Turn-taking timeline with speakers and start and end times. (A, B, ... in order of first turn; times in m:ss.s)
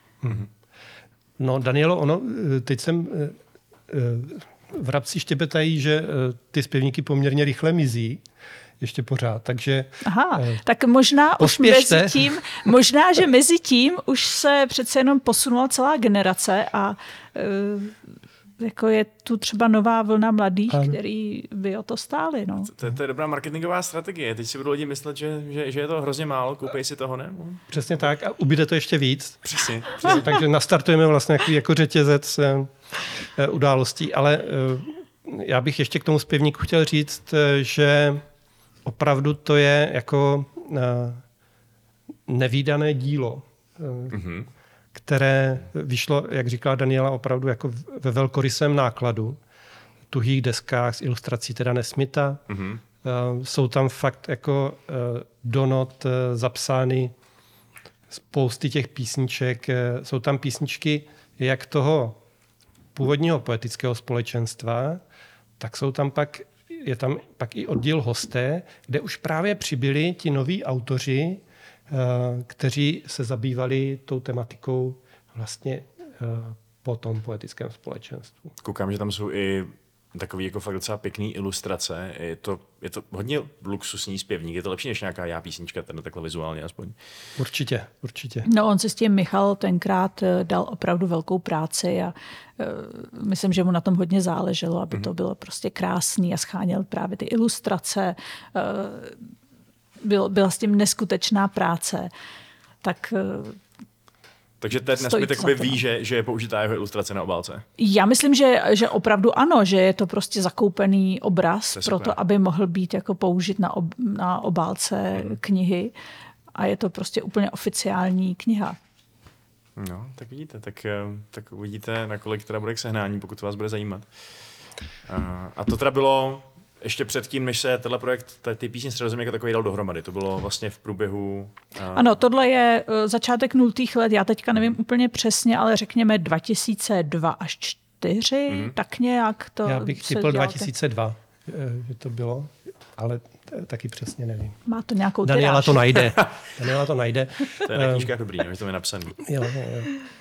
0:00.2-0:00.5 A
0:01.4-0:03.4 A
0:03.9-0:08.2 A
0:08.8-0:10.6 A
0:10.0-0:18.0 B
0:11.4-0:12.7 A
0:18.6-0:22.7 B
0:20.7-0:21.0 A
0:22.7-0:27.6 C
0:27.7-0:38.2 A
0:29.4-0:30.2 C
0:38.8-0:41.2 A
0:42.3-0:44.2 A
0:44.1-0:44.5 C
0:44.9-0:49.4 A
0:50.1-0:52.4 A
0:52.5-0:52.8 C
0:53.0-0:57.1 A
0:58.1-1:02.2 A
1:02.9-1:05.0 A
1:05.6-1:18.5 A
1:18.6-1:27.0 C
1:27.4-1:28.4 A
1:28.4-1:39.2 B
1:40.0-1:42.1 B
1:42.8-1:43.6 B
1:44.6-1:47.6 C
1:44.9-1:45.8 B
1:47.8-1:55.9 B
1:51.7-1:52.2 C
1:56.5-1:58.8 B
1:59.8-2:04.0 C
2:05.1-2:12.1 C
2:11.9-2:20.7 B
2:18.5-2:18.7 C
2:19.6-2:24.6 A
2:24.7-2:26.0 B
2:25.2-2:28.1 A
2:27.6-2:29.2 C
2:29.2-2:29.9 A